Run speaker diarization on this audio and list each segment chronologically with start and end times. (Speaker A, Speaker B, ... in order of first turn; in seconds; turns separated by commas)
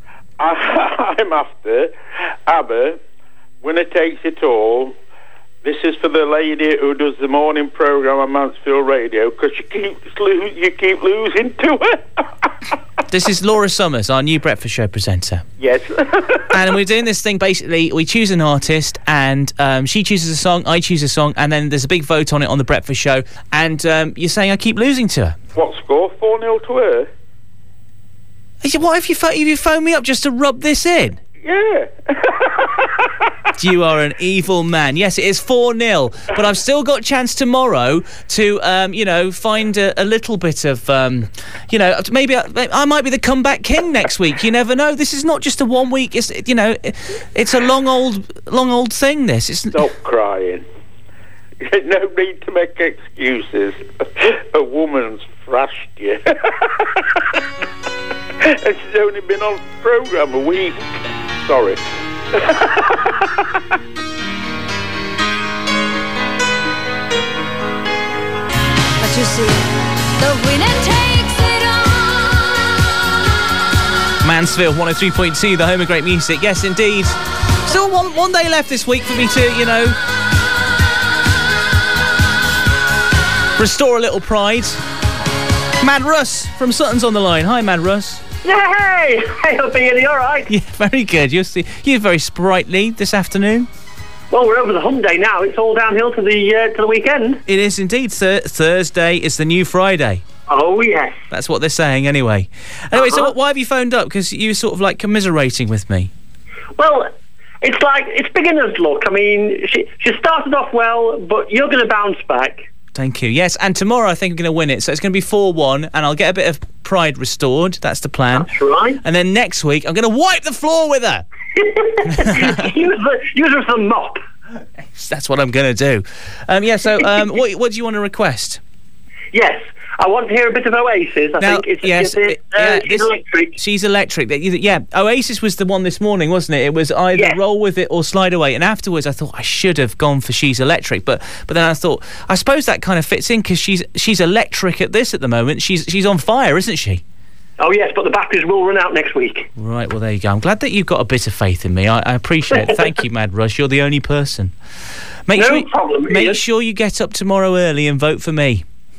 Speaker A: 0.4-1.9, Speaker A: 2.5-3.0, Speaker A: 3.6-4.9, Speaker A: 5.6-12.5, Speaker B: 13.1-15.4, Speaker A: 15.6-16.6, Speaker B: 16.5-25.4, Speaker A: 25.6-27.1, Speaker B: 28.6-31.2, Speaker A: 31.4-33.3, Speaker B: 33.6-49.8, Speaker A: 49.7-50.6, Speaker A: 51.6-57.4, Speaker A: 58.4-60.9, Speaker A: 61.4-63.6, Speaker C: 69.0-72.8, Speaker B: 74.2-80.0, Speaker B: 83.5-84.8, Speaker B: 85.8-88.2, Speaker D: 88.4-90.5, Speaker B: 90.5-93.7, Speaker D: 94.3-97.4, Speaker B: 97.5-100.2, Speaker D: 100.5-101.2, Speaker B: 101.3-106.1, Speaker D: 102.9-103.3, Speaker D: 106.8-112.6, Speaker B: 112.9-118.5, Speaker D: 118.3-119.0, Speaker B: 119.0-121.2, Speaker D: 121.6-124.2, Speaker B: 122.1-122.5, Speaker B: 124.9-128.6, Speaker D: 129.3-133.6, Speaker B: 131.4-147.0, Speaker D: 147.6-149.5, Speaker B: 149.6-154.5, Speaker B: 155.2-158.6, Speaker D: 155.3-156.4